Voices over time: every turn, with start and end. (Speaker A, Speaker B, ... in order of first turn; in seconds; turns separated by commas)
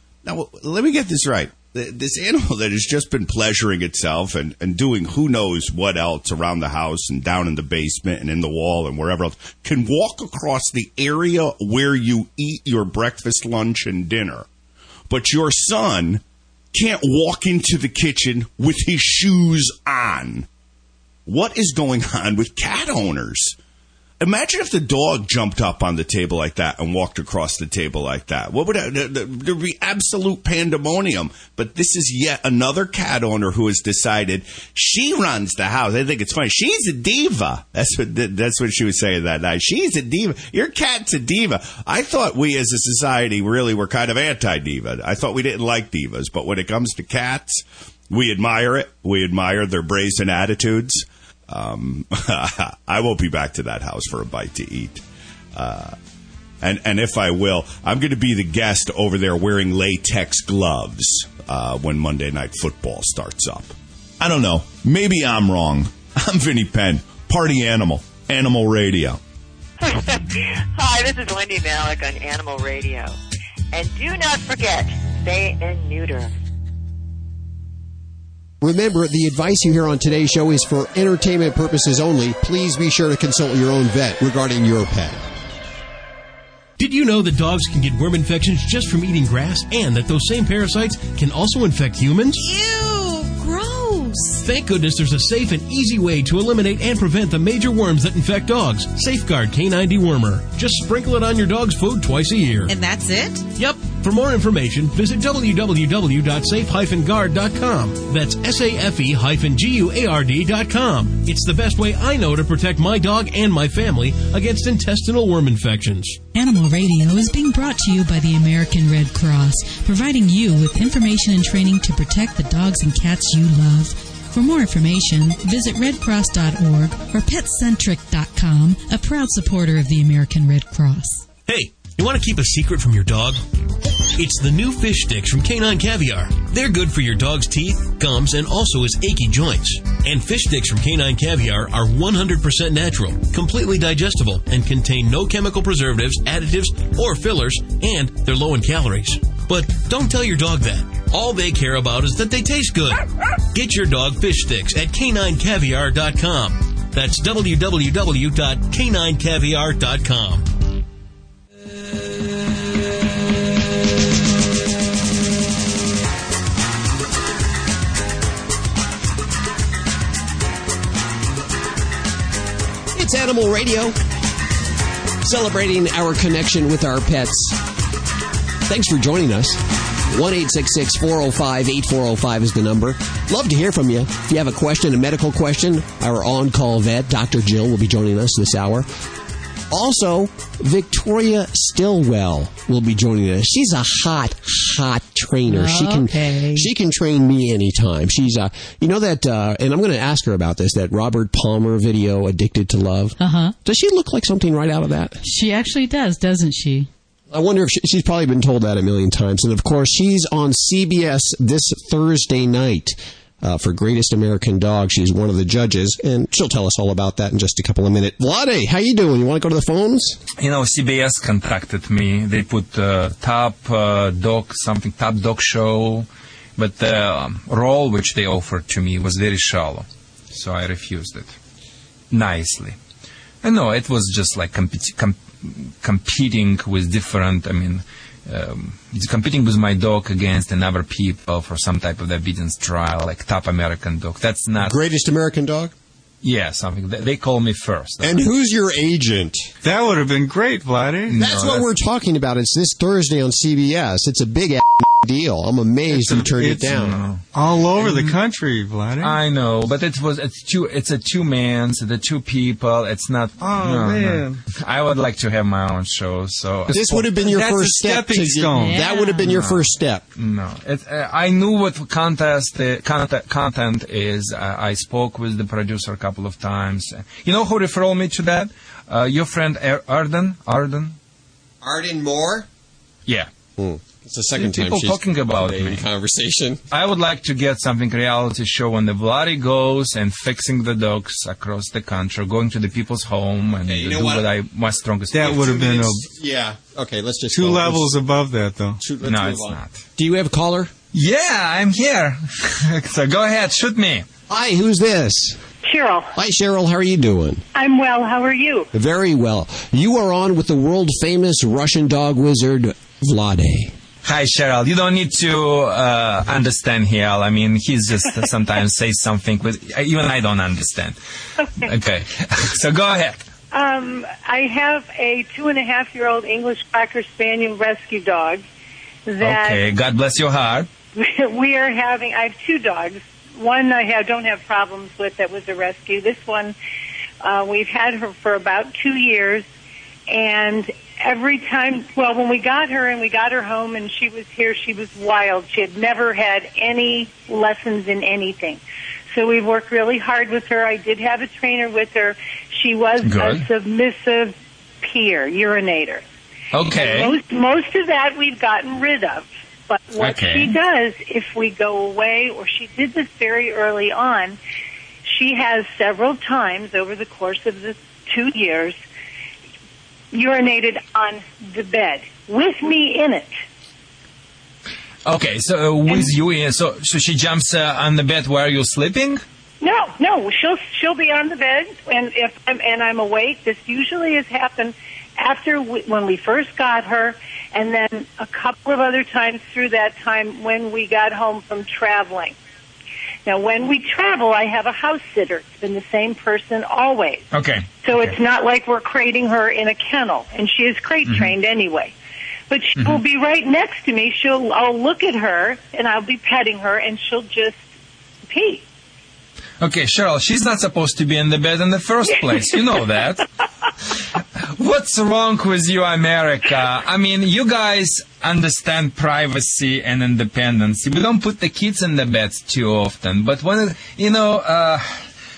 Speaker A: 0.2-14.5, Speaker A: 15.1-16.2, Speaker A: 16.7-20.5, Speaker A: 21.2-23.5, Speaker A: 24.2-55.0, Speaker A: 55.5-55.9, Speaker A: 56.6-69.2, Speaker B: 70.8-73.1, Speaker B: 73.7-76.3, Speaker C: 78.6-85.2, Speaker D: 86.8-92.4, Speaker D: 94.4-102.7, Speaker D: 103.5-116.2, Speaker E: 116.3-131.2, Speaker D: 131.5-133.4, Speaker D: 134.2-160.4, Speaker C: 172.9-173.9, Speaker C: 175.2-177.6, Speaker C: 178.7-188.9, Speaker C: 189.7-205.2, Speaker E: 195.5-196.7, Speaker E: 203.2-203.5, Speaker E: 205.2-206.9, Speaker C: 207.3-220.2, Speaker F: 220.4-231.3, Speaker F: 232.1-232.8, Speaker F: 233.4-244.8, Speaker C: 244.6-245.7, Speaker F: 246.2-248.3, Speaker C: 248.0-249.5, Speaker G: 249.6-251.2, Speaker F: 251.1-251.7, Speaker C: 251.1-257.0, Speaker G: 255.9-259.2, Speaker F: 256.8-257.2, Speaker F: 257.8-258.2, Speaker F: 259.0-267.1, Speaker G: 263.4-264.4, Speaker C: 266.7-270.0, Speaker G: 266.7-268.8, Speaker E: 268.5-269.3, Speaker F: 269.2-269.6, Speaker F: 270.1-281.0, Speaker C: 281.6-282.5, Speaker C: 283.6-286.6, Speaker F: 284.3-285.8, Speaker F: 286.7-295.6, Speaker C: 293.7-294.3, Speaker G: 295.1-296.1, Speaker C: 295.2-297.9, Speaker G: 297.3-298.9, Speaker C: 298.8-300.7, Speaker F: 299.0-299.8, Speaker F: 300.9-304.1, Speaker C: 304.3-305.4, Speaker H: 305.6-306.1, Speaker C: 306.1-307.4, Speaker H: 307.5-308.7, Speaker C: 308.7-313.7, Speaker F: 314.0-321.0, Speaker H: 321.4-321.7, Speaker F: 321.6-323.2, Speaker H: 323.5-328.4, Speaker H: 329.1-329.6, Speaker F: 329.2-330.7, Speaker H: 330.9-336.6, Speaker H: 337.2-339.4, Speaker H: 340.1-348.6, Speaker H: 349.1-356.0, Speaker F: 353.0-353.4, Speaker F: 356.5-357.2, Speaker H: 356.6-364.4, Speaker F: 360.0-360.6, Speaker H: 365.0-368.8, Speaker H: 370.1-373.4, Speaker F: 375.0-379.2, Speaker H: 379.6-392.4, Speaker H: 393.2-397.2, Speaker F: 397.3-398.2, Speaker H: 397.8-401.9, Speaker F: 401.0-401.3, Speaker H: 402.5-407.6, Speaker F: 402.8-403.0, Speaker H: 408.3-408.6, Speaker F: 409.6-413.2, Speaker F: 414.6-425.0